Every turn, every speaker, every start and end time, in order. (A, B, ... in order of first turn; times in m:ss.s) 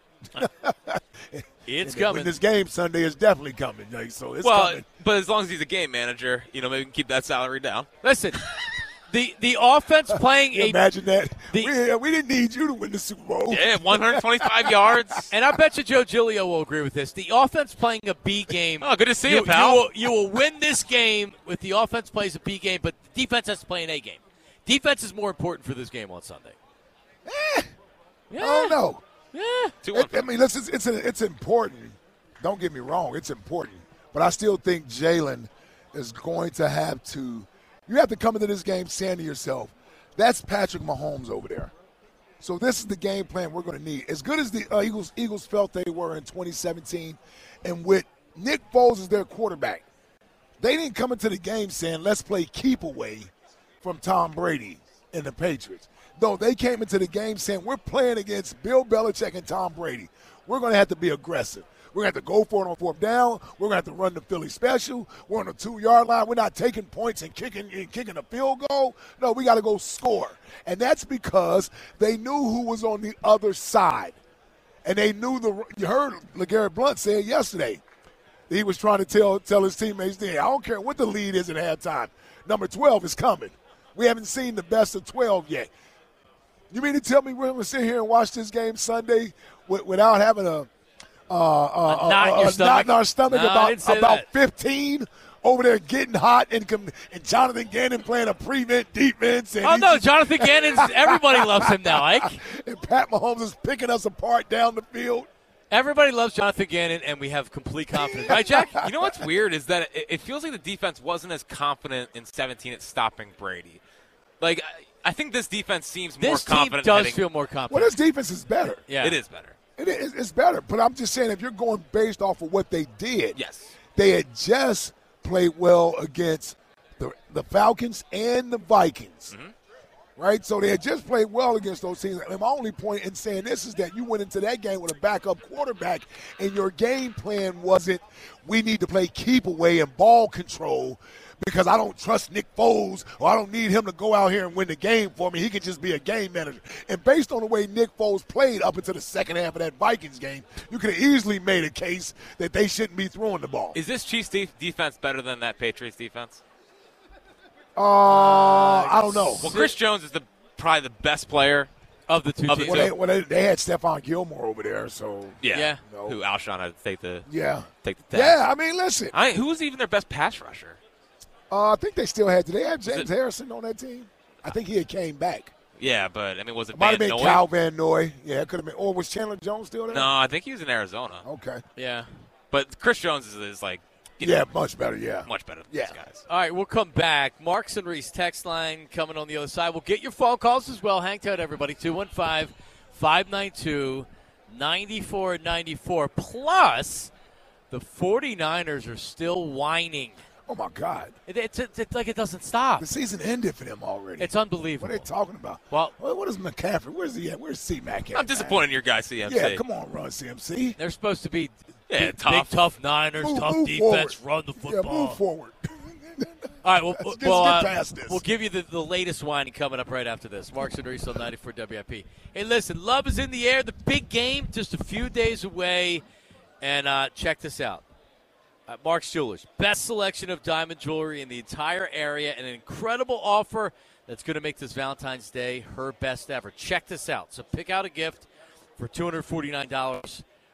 0:00.4-0:04.8 A
0:01.7-0:02.4 B
0:04.4-0:07.9 C
0:08.0-0:08.4 B
0:09.1-0:10.8 B
0:10.1-0:15.0 A
0:13.5-0:15.3 C
0:15.3-0:26.6 B
0:18.8-0:19.8 C
0:27.3-0:27.7 A
0:28.3-0:28.8 B
0:28.4-0:29.0 A
0:29.3-0:29.8 B
0:29.8-0:30.2 C
0:29.9-0:41.7 A
0:42.4-0:49.8 A
0:50.6-0:53.3 A
0:53.8-1:14.2 A
1:14.8-1:17.8 A
1:18.5-1:25.7 A
1:26.7-1:30.7 A
1:31.3-1:45.3 A
1:31.9-1:34.3 B
1:39.6-1:42.4 B
1:45.7-1:48.8 B
1:47.9-1:49.1 A
1:48.8-1:53.8 C
1:54.4-1:57.2 C
1:56.2-1:57.9 B
1:57.7-1:58.8 A
1:58.9-1:59.2 B
1:59.0-1:59.6 C
1:59.8-2:03.4 A
2:03.4-2:03.8 C
2:03.9-2:09.3 A
2:10.2-2:33.8 A
2:33.8-2:36.4 C
2:37.8-2:39.5 A
2:38.1-2:39.7 B
2:39.4-2:41.7 C
2:42.1-2:42.9 B
2:42.5-2:42.9 C
2:42.6-2:46.2 A
2:45.4-2:47.3 C
2:45.5-2:45.8 B
2:47.3-2:49.1 A
2:47.8-2:48.4 C
2:49.1-2:50.8 C
2:51.5-2:55.5 A
2:55.8-2:57.4 C
2:56.7-3:00.1 A
2:59.9-3:01.2 C
3:01.2-3:01.6 A
3:01.8-3:02.1 B
3:02.5-3:04.4 C
3:04.2-3:06.0 A
3:05.3-3:06.2 C
3:06.3-3:17.1 B
3:17.7-3:20.2 B
3:20.5-3:21.2 A
3:21.3-3:22.9 B
3:22.8-3:28.6 A
3:24.2-3:25.1 B
3:28.1-3:29.6 C
3:29.3-3:30.8 A
3:30.8-3:35.2 B
3:31.9-3:32.5 C
3:33.2-3:36.4 A
3:36.6-3:46.0 B
3:36.9-3:38.2 A
3:46.6-3:47.8 B
3:48.7-3:58.3 B
3:58.8-4:00.2 B